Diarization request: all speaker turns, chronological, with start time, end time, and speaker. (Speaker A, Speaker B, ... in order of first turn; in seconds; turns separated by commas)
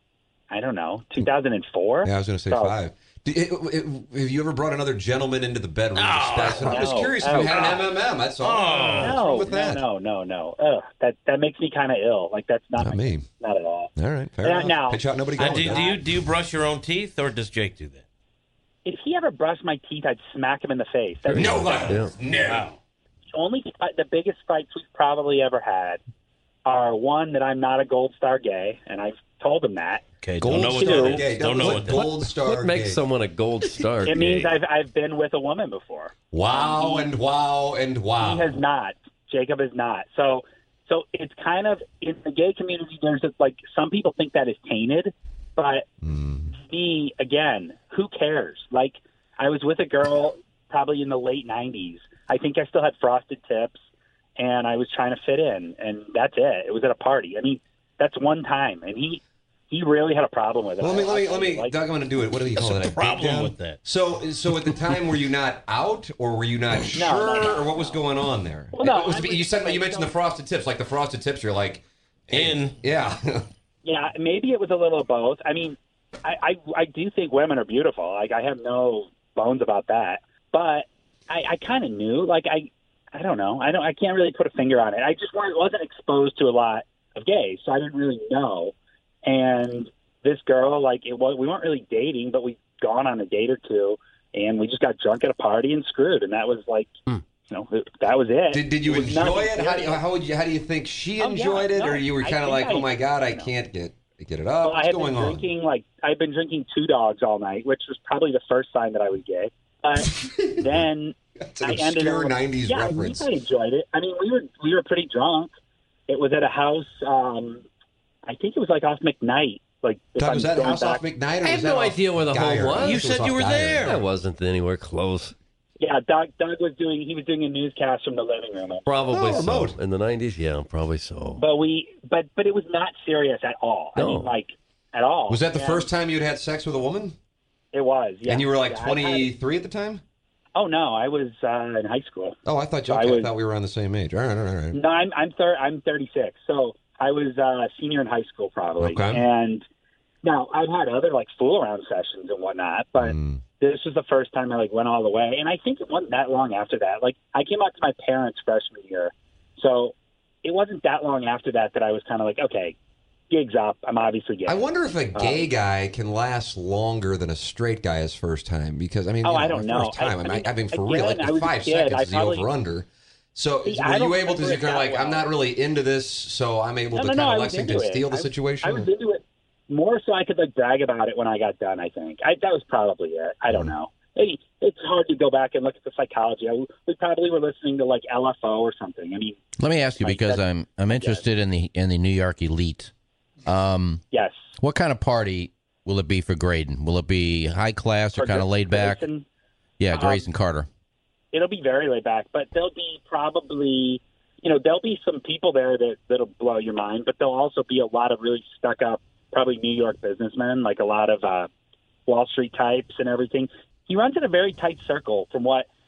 Speaker A: 0.5-2.8, Speaker B: 2.0-9.8, Speaker C: 6.0-7.8, Speaker A: 6.6-7.8, Speaker C: 8.4-9.3, Speaker A: 8.9-16.0, Speaker B: 12.8-13.3, Speaker B: 14.0-15.9, Speaker C: 15.4-18.0, Speaker A: 18.9-22.0, Speaker D: 21.3-22.1, Speaker B: 21.3-22.7, Speaker C: 22.3-22.7, Speaker A: 23.3-26.0, Speaker A: 26.6-31.3, Speaker C: 30.2-32.0, Speaker B: 30.4-33.0, Speaker D: 31.6-34.5, Speaker A: 34.0-37.1, Speaker B: 36.3-38.6, Speaker A: 38.2-45.9, Speaker B: 46.0-46.6, Speaker A: 46.6-53.8, Speaker A: 54.4-61.8, Speaker B: 60.8-73.5, Speaker C: 62.6-63.8, Speaker A: 67.0-68.0, Speaker A: 68.7-70.1, Speaker C: 72.3-72.8, Speaker A: 73.8-96.9, Speaker A: 97.5-100.0, Speaker B: 98.5-105.4, Speaker A: 101.2-103.5, Speaker A: 104.6-115.5, Speaker B: 110.3-110.7, Speaker B: 111.4-113.3, Speaker A: 116.1-117.7, Speaker A: 118.3-121.0, Speaker B: 120.2-123.9, Speaker D: 121.4-123.0, Speaker C: 122.8-124.0, Speaker D: 123.8-125.3, Speaker A: 125.8-128.9, Speaker D: 128.9-131.4, Speaker B: 129.1-129.8, Speaker A: 131.4-135.9, Speaker D: 134.0-134.3, Speaker B: 135.3-137.2, Speaker A: 137.7-139.3, Speaker B: 138.2-140.0, Speaker A: 140.6-142.4, Speaker B: 142.4-144.8, Speaker A: 142.9-143.3, Speaker A: 144.7-149.7, Speaker B: 148.8-149.2, Speaker A: 150.2-162.8, Speaker B: 153.0-153.4, Speaker A: 163.3-165.5, Speaker B: 164.5-178.9, Speaker A: 169.2-172.5, Speaker A: 173.7-175.3, Speaker A: 176.9-189.4, Speaker E: 189.6-192.9, Speaker A: 190.0-191.2, Speaker E: 193.5-194.0, Speaker A: 194.1-194.4, Speaker E: 194.6-199.0, Speaker A: 198.2-199.3, Speaker E: 199.8-200.7, Speaker A: 199.9-200.3, Speaker A: 201.3-211.5, Speaker A: 212.1-215.7